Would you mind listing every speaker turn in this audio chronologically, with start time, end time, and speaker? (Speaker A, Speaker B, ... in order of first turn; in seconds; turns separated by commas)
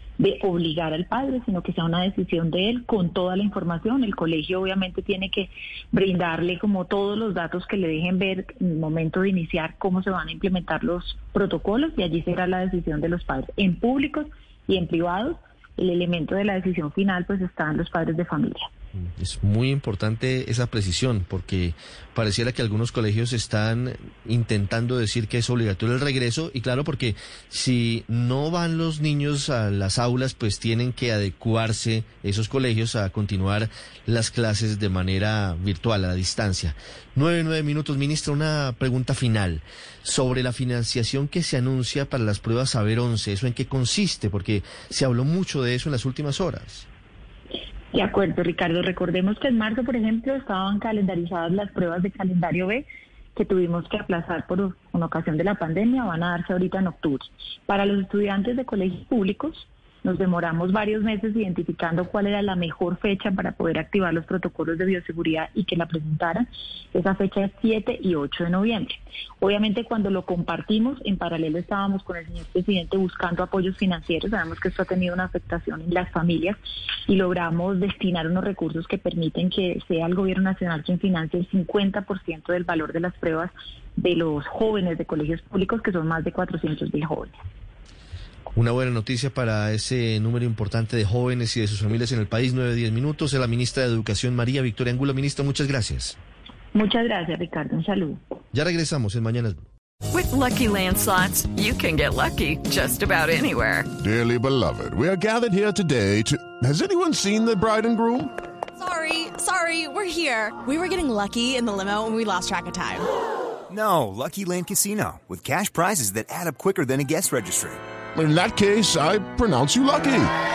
Speaker A: 0.2-18.7, Speaker B: 19.0-46.9, Speaker A: 47.9-52.8, Speaker A: 53.4-87.4, Speaker B: 88.5-96.2, Speaker A: 96.7-98.2, Speaker B: 98.5-99.6, Speaker C: 100.1-103.9, Speaker D: 104.0-108.3, Speaker E: 108.8-113.1, Speaker F: 113.7-117.8, Speaker D: 118.2-120.3